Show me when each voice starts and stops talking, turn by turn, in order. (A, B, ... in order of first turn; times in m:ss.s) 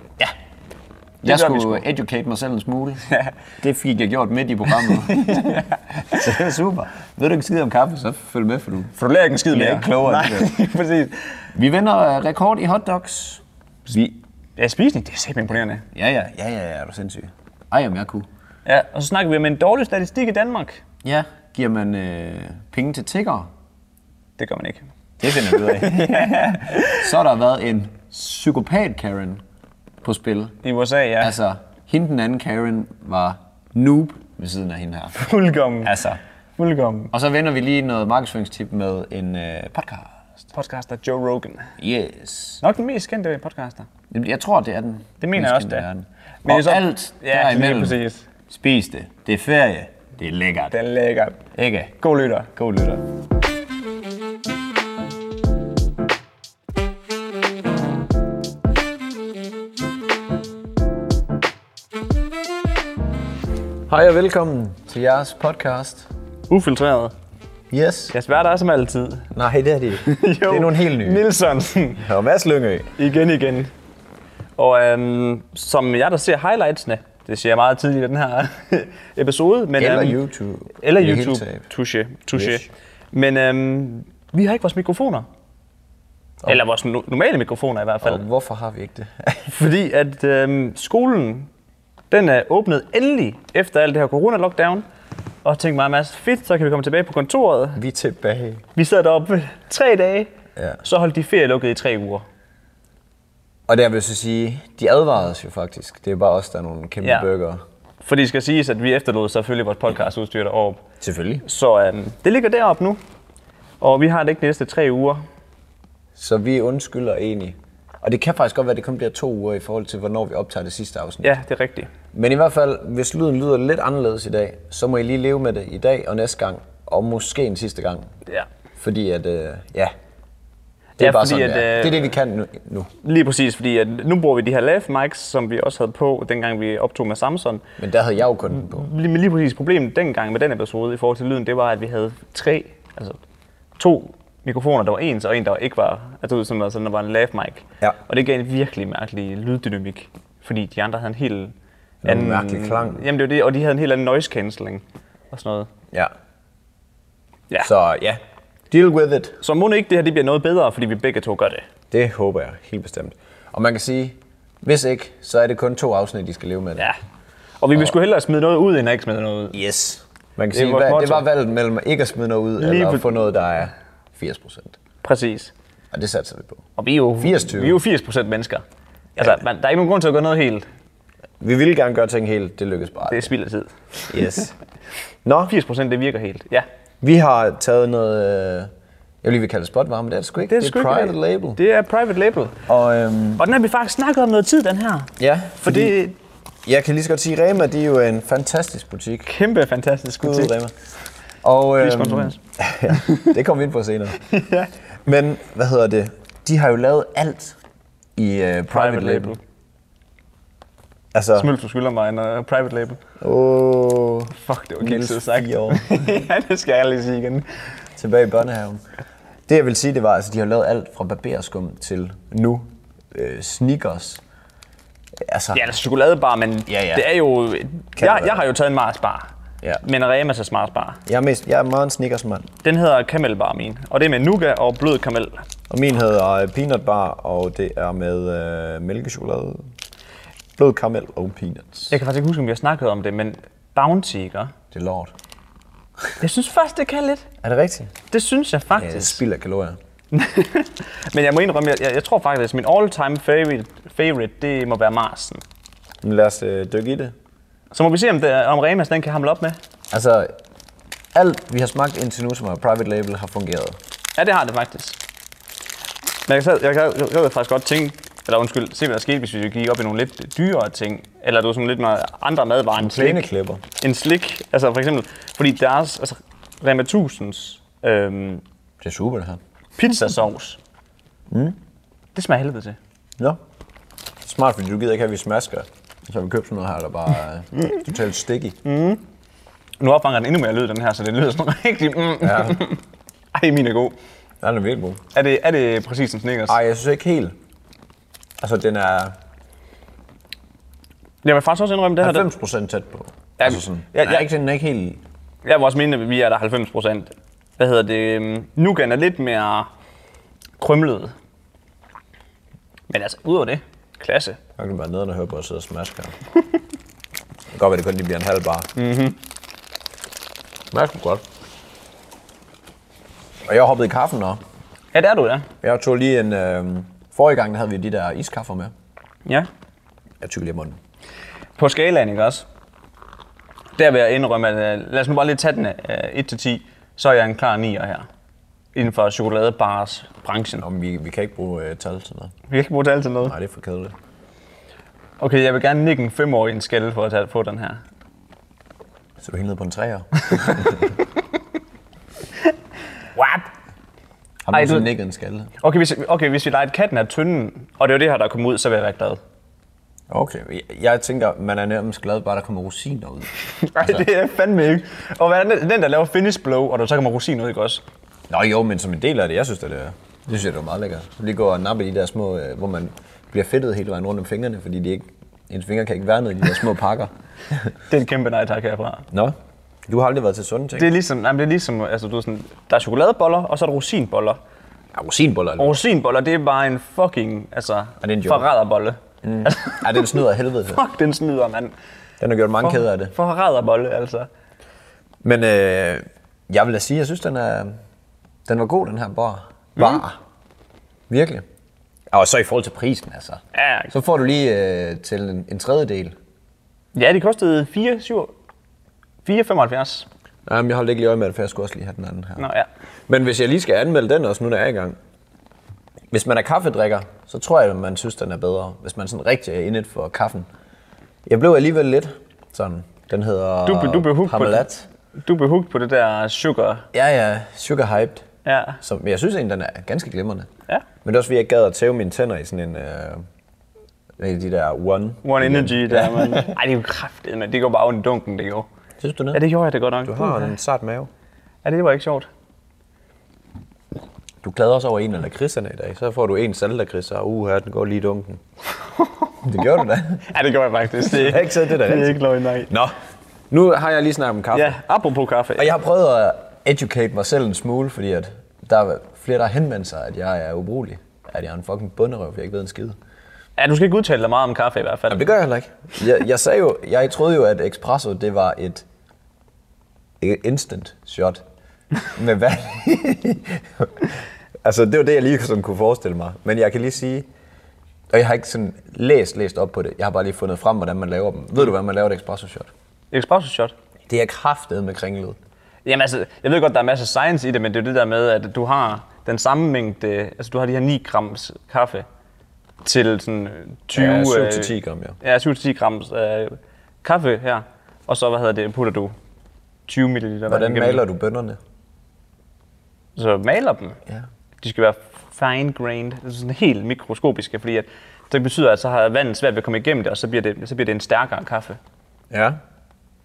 0:01.2-0:03.0 A
0:01.2-0:01.8 B
0:03.6-0:08.9 A
0:04.7-0:06.2 B
0:09.0-0:11.2 B
0:09.5-0:10.5 A
0:11.5-0:14.2 A
0:14.6-0:15.8 B
0:15.9-0:18.2 A
0:18.6-0:20.8 B
0:21.0-0:23.5 A
0:24.4-0:27.1 B
0:25.2-0:29.4 A
0:30.0-0:30.5 A
0:30.6-0:31.4 B
0:31.2-0:35.1 A
0:35.1-0:36.0 B
0:35.8-0:36.2 A
0:36.6-0:37.1 B
0:37.1-0:40.1 A
0:40.5-0:41.7 B
0:41.8-0:42.6 A
0:42.6-0:43.9 B
0:44.1-0:50.7 A
0:45.2-0:45.9 B
0:46.4-0:48.2 B
0:50.7-0:51.4 B
0:51.5-0:53.0 A
0:52.0-0:52.5 B
1:03.9-1:06.1 A
1:06.5-1:07.1 B
1:07.7-1:08.1 A
1:08.1-1:09.3 B
1:09.3-1:11.2 A
1:10.0-1:12.0 B
1:12.0-1:12.9 A
1:13.0-1:13.7 B
1:14.6-1:20.2 B
1:19.8-1:21.6 A
1:20.8-1:25.2 B
1:22.3-1:22.6 A
1:26.4-1:28.2 B
1:28.0-1:29.5 A
1:29.5-1:31.5 B
1:32.1-1:34.8 B
1:35.4-1:37.8 B
1:37.8-1:38.6 A
1:38.8-1:40.3 B
1:40.6-1:40.8 A
1:40.8-1:42.2 B
1:43.7-1:47.6 A
1:47.0-1:47.3 B
1:48.0-1:50.8 B
1:51.0-1:51.4 A
1:51.4-1:53.0 B
1:53.8-1:55.2 B
1:56.2-2:01.3 A
2:01.2-2:01.9 B
2:02.1-2:08.1 A
2:08.8-2:09.9 A
2:11.0-2:12.9 A
2:11.0-2:12.1 B
2:13.0-2:17.6 B
2:17.8-2:18.9 A
2:18.5-2:23.2 B
2:23.8-2:31.5 B
2:32.0-2:33.0 A
2:32.0-2:35.7 B
2:37.6-2:38.2 A
2:38.7-2:39.4 A
2:39.4-2:41.7 B
2:41.9-2:46.9 A
2:47.6-2:49.6 B
2:49.5-2:54.8 A
2:50.5-2:51.2 B
2:52.6-2:53.1 B
2:55.0-2:55.5 B
2:55.9-2:56.6 A
2:56.8-2:58.6 B
2:57.2-2:57.8 A
2:59.2-3:00.7 B
3:01.4-3:03.3 A
3:03.1-3:04.4 B
3:04.1-3:04.5 A
3:05.2-3:05.5 A
3:05.5-3:06.6 B
3:07.0-3:08.7 A
3:09.2-3:11.6 A
3:10.4-3:12.6 B
3:12.7-3:13.4 A
3:13.4-3:15.1 B
3:15.2-3:16.0 A
3:15.6-3:16.2 B
3:16.6-3:19.3 A
3:19.3-3:20.5 B
3:20.2-3:20.7 A
3:21.4-3:24.2 A
3:21.8-3:22.4 B
3:22.9-3:23.3 B
3:24.2-3:24.7 B
3:25.0-3:27.6 A
3:28.2-3:29.3 A
3:28.7-3:29.4 B
3:31.1-3:31.5 A
3:31.3-3:33.0 B
3:33.2-3:36.2 A
3:34.3-3:37.4 B
3:38.0-3:38.8 A
3:39.5-3:44.2 A
3:45.2-3:45.7 A
3:45.5-3:49.3 B
3:46.7-3:47.1 A
3:48.0-3:48.4 A
3:49.8-3:51.0 B
3:51.0-3:52.5 A
3:52.6-3:55.4 B
3:55.7-3:59.6 A
4:00.6-4:02.0 A
4:01.9-4:04.5 B
4:04.7-4:05.1 A
4:06.2-4:07.3 B
4:07.4-4:07.9 A
4:08.1-4:09.2 B
4:08.8-4:09.8 A
4:10.1-4:15.4 B
4:16.0-4:17.1 A
4:17.7-4:19.6 B
4:19.9-4:20.3 A
4:21.1-4:23.8 A
4:24.2-4:25.0 B
4:26.3-4:33.2 B
4:32.8-4:33.6 A
4:33.8-4:38.4 B
4:38.8-4:39.4 A
4:39.8-4:40.6 B
4:41.3-4:41.6 A
4:42.1-4:42.8 B
4:44.2-4:48.6 A
4:48.6-4:49.0 B
4:49.8-4:52.8 B
4:52.2-4:52.6 A
4:53.3-4:54.0 B
4:54.4-4:55.0 A
4:55.1-4:56.6 B
4:56.5-4:57.3 A
4:58.4-4:59.1 A
5:01.2-5:02.3 B
5:02.0-5:05.0 A
5:03.4-5:04.3 B
5:05.4-5:09.7 B
5:10.6-5:11.1 B
5:12.9-5:14.4 B
5:14.6-5:16.2 A
5:17.5-5:18.7 A
5:18.7-5:19.2 B
5:20.7-5:21.2 A
5:23.4-5:24.4 A
5:24.9-5:25.5 B
5:25.6-5:28.7 A
5:30.2-5:30.8 A
5:31.6-5:32.4 B
5:33.8-5:38.0 B
5:38.7-5:40.6 B
5:40.6-5:42.3 A
5:42.5-5:43.3 B
5:43.2-5:43.9 A
5:45.2-5:47.8 B
5:49.2-5:50.9 A
5:50.3-5:50.8 B
5:53.2-5:53.4 B
5:54.4-5:55.5 A
5:54.5-5:54.9 B
5:55.6-5:59.2 B
6:00.1-6:04.1 A
6:03.6-6:07.8 B
6:08.3-6:17.7 A
6:17.9-6:19.0 B
6:19.9-6:20.9 A
6:20.7-6:24.4 B
6:24.9-6:25.8 A
6:25.6-6:30.2 B
6:28.0-6:28.5 A
6:29.2-6:30.8 A
6:30.7-6:31.7 B
6:32.2-6:33.1 A
6:32.6-6:34.3 B
6:35.2-6:37.7 A
6:38.4-6:40.2 A
6:39.8-6:40.0 B
6:41.1-6:41.4 A
6:42.1-6:46.1 A
6:43.5-6:43.9 B
6:46.9-6:48.3 B
6:49.2-6:50.1 B
6:50.4-6:52.5 A
6:52.4-6:52.7 B
6:53.1-6:55.0 A
6:56.1-7:00.4 A
7:01.2-7:04.9 A
7:03.6-7:04.6 B
7:05.2-7:06.9 B
7:06.9-7:08.2 A
7:08.4-7:08.8 B
7:08.8-7:10.5 A
7:11.0-7:13.2 A
7:14.2-7:16.6 A
7:15.2-7:18.7 B
7:19.0-7:19.4 A
7:19.3-7:20.5 B
7:20.0-7:21.1 A
7:21.6-7:22.3 B
7:24.4-7:28.4 A
7:29.0-7:29.3 B
7:29.4-7:30.2 A
7:30.3-7:32.7 B
7:31.0-7:32.9 A
7:33.5-7:34.8 A
7:34.5-7:35.7 B
7:35.6-7:43.0 A
7:43.6-7:45.2 B
7:45.1-7:48.8 A
7:50.2-7:51.4 A
7:52.1-7:57.2 A
7:58.1-8:02.7 A
8:03.1-8:03.7 B
8:04.1-8:05.4 A
8:05.8-8:12.0 B
8:12.8-8:19.1 B
8:13.9-8:15.2 A
8:19.9-8:21.0 B
8:20.5-8:21.6 A
8:23.2-8:24.0 B
8:24.6-8:31.8 B
8:32.3-8:32.6 A